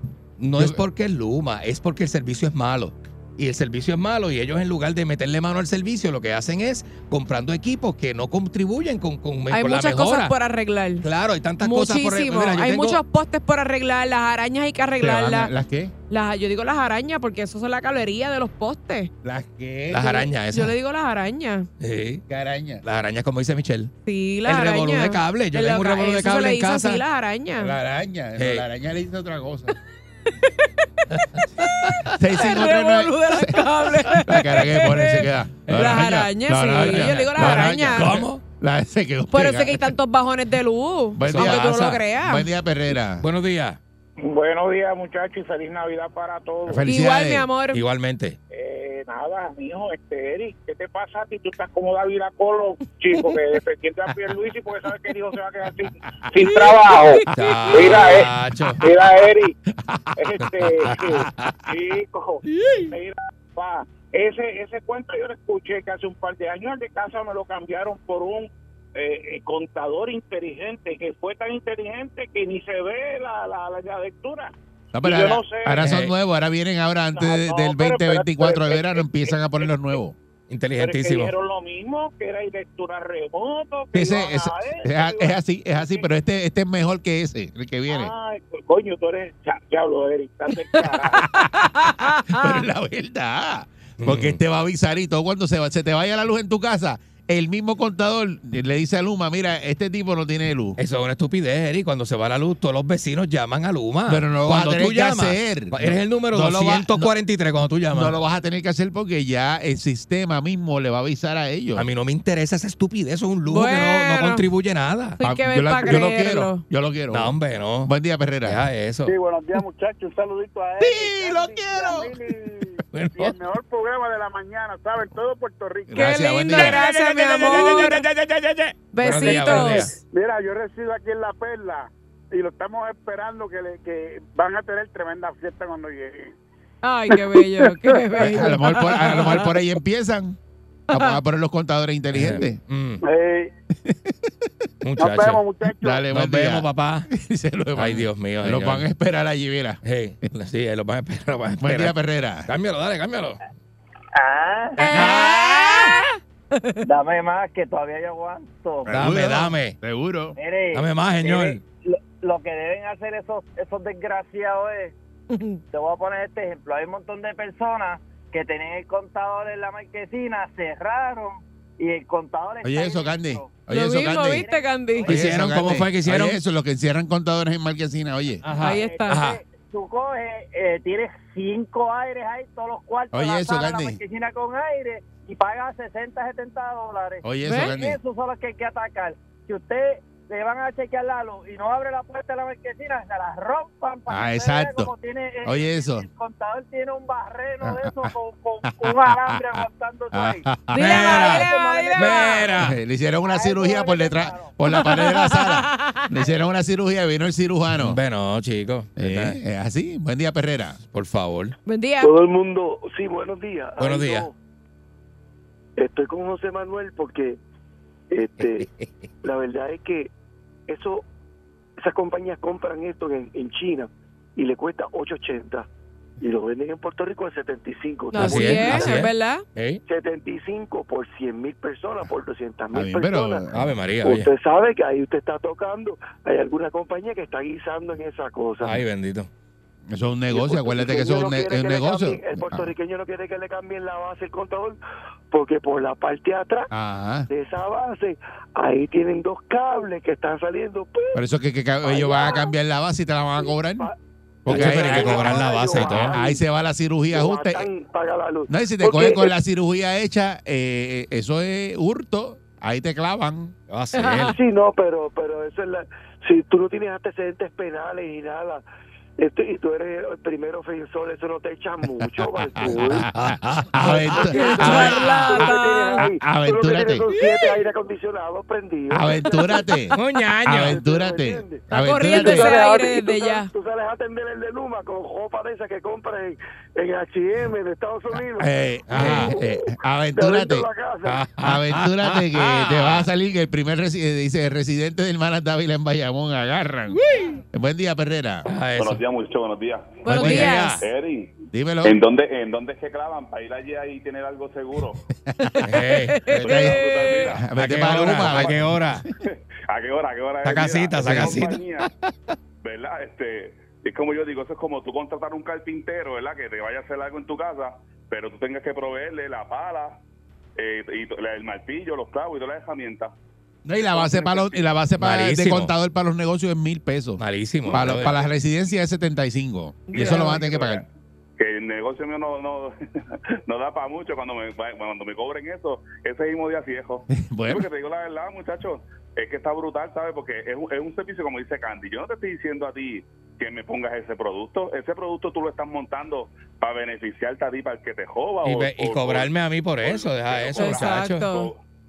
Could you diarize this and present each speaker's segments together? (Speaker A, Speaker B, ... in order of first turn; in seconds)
Speaker A: 0.4-10.3, 11.0-13.0, 19.9-20.7, 21.8-22.2, 22.8-23.9, 24.4-27.0, 28.4-28.6, 35.6-36.0, 36.7-38.4, 41.2-42.0, 43.2-43.8, 47.7-48.4, 57.3-58.8, 60.8-61.5, 75.8-76.1, 80.5-81.3, 94.0-94.4, 100.8-108.1, 111.8-115.2, 117.1-117.9, 118.4-119.1, 122.9-123.4, 126.5-129.9, 142.1-143.0, 144.8-145.4, 146.1-147.1, 147.7-148.8, 149.8-151.9, 152.4-153.4, 154.8-155.7, 158.9-159.8, 160.7-161.6, 175.0-176.4, 178.4-179.4, 200.7-202.8, 207.7-209.4, 210.9-211.5, 213.8-214.3, 228.2-229.8, 233.5-234.3, 238.6-239.3, 254.5-256.2, 263.7-264.3, 273.1-274.7, 279.9-280.8, 288.9-289.3, 291.0-293.1, 298.4-299.0, 300.1-300.8, 305.6-306.2, 307.5-309.0, 310.4-311.6, 325.0-325.7, 327.2-328.2, 348.4-351.3
Speaker B: 9.5-11.1, 11.6-15.5, 16.1-19.1, 20.0-21.7, 24.1-27.8, 30.4-30.8, 32.4-38.2, 39.3-42.5, 46.9-47.8, 91.9-92.6, 113.4-114.4, 115.2-116.6, 125.9-128.1, 128.9-130.0, 136.8-139.4, 140.9-141.2, 154.8-156.8, 165.3-165.6, 173.7-175.1, 178.6-179.2, 187.4-187.7, 200.7-202.5, 204.6-206.1, 211.7-212.1, 228.1-229.4, 264.0-264.3, 274.3-276.1, 277.1-277.5, 281.7-283.5, 300.0-300.9, 306.1-307.4, 329.9-330.4, 350.6-351.5
Speaker C: 15.0-15.9, 19.2-20.2, 22.3-22.8, 27.6-29.7, 32.1-39.9, 41.1-43.2, 46.7-47.5, 74.9-80.2, 83.9-88.1, 91.1-100.8, 104.1-107.1, 107.9-111.9, 115.2-118.6, 120.8-122.1, 125.9-126.8, 129.5-129.8, 138.2-140.4, 140.9-142.6, 143.8-144.3, 145.8-149.8, 151.6-152.5, 155.0-155.3, 158.9-160.3, 172.6-174.4, 175.1-178.5, 183.1-184.0, 187.2-188.0, 194.1-194.9, 195.4-196.1, 197.6-198.1, 198.7-201.0, 202.6-208.0, 209.0-210.8, 232.7-233.8, 239.9-242.7, 246.7-247.3, 251.1-253.9, 254.4-257.7, 258.5-263.5, 272.0-277.1, 278.9-282.6, 288.4-290.7, 291.4-297.0, 297.5-298.4, 300.1-300.5, 301.5-302.0, 305.2-308.7, 311.0-311.5, 323.6-330.8, 337.1-337.7
Speaker D: 44.2-46.8, 48.5-59.5, 60.1-75.9, 77.1-79.9, 80.8-86.1, 87.9-91.3, 119.0-126.6, 130.1-136.3, 137.1-138.4, 143.0-143.5, 145.0-146.1
Speaker E: 154.1-154.8, 156.8-159.0, 160.3-164.9, 165.7-175.1, 178.6-202.6, 203.2-204.6
Speaker F: 212.0-214.3, 215.8-217.4, 218.1-218.7, 219.2-220.1, 220.7-221.0, 221.8-225.7, 226.2-228.9, 229.8-233.4, 234.0-238.8, 240.3-244.8, 245.3-246.7, 247.3-251.2, 251.8-252.5, 253.4-253.9, 254.5-256.4, 257.1-259.3, 264.3-268.6, 269.2-273.1, 273.8-291.2
Speaker G: 298.8-300.1, 300.8-305.0, 306.4-307.5, 309.3-311.9, 312.6-320.0, 320.6-323.1, 323.8-324.6, 329.9-330.9, 331.4-332.7, 333.5-351.6